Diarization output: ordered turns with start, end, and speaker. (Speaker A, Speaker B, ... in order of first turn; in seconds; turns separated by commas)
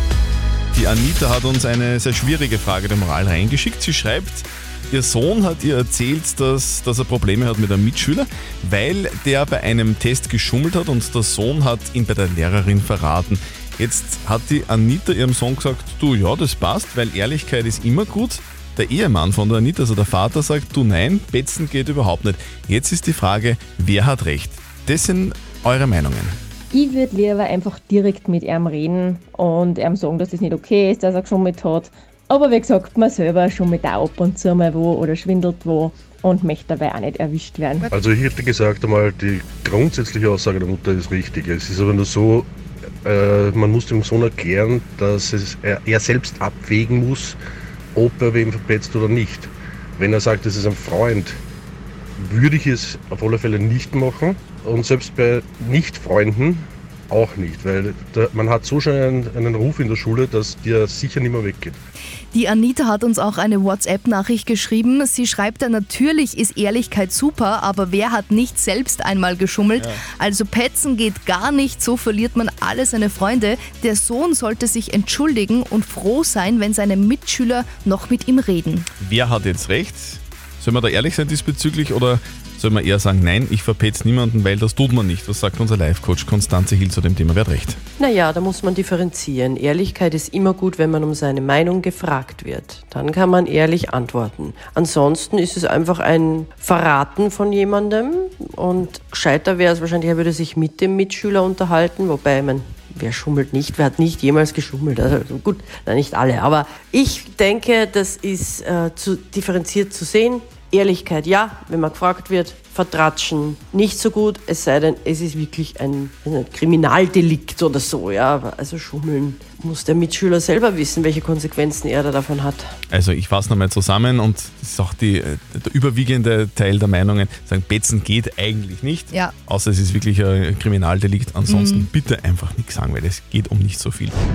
Speaker A: 0.7-26.4, Speaker B: 26.7-37.9, Speaker C: 37.9-42.5, Speaker C: 43.0-47.4, Speaker C: 47.9-51.4, Speaker C: 52.2-61.8, Speaker D: 62.3-78.9, Speaker A: 69.8-70.0, Speaker A: 79.0-87.8, Speaker E: 88.0-122.8, Speaker A: 122.9-134.1, Speaker D: 131.5-131.9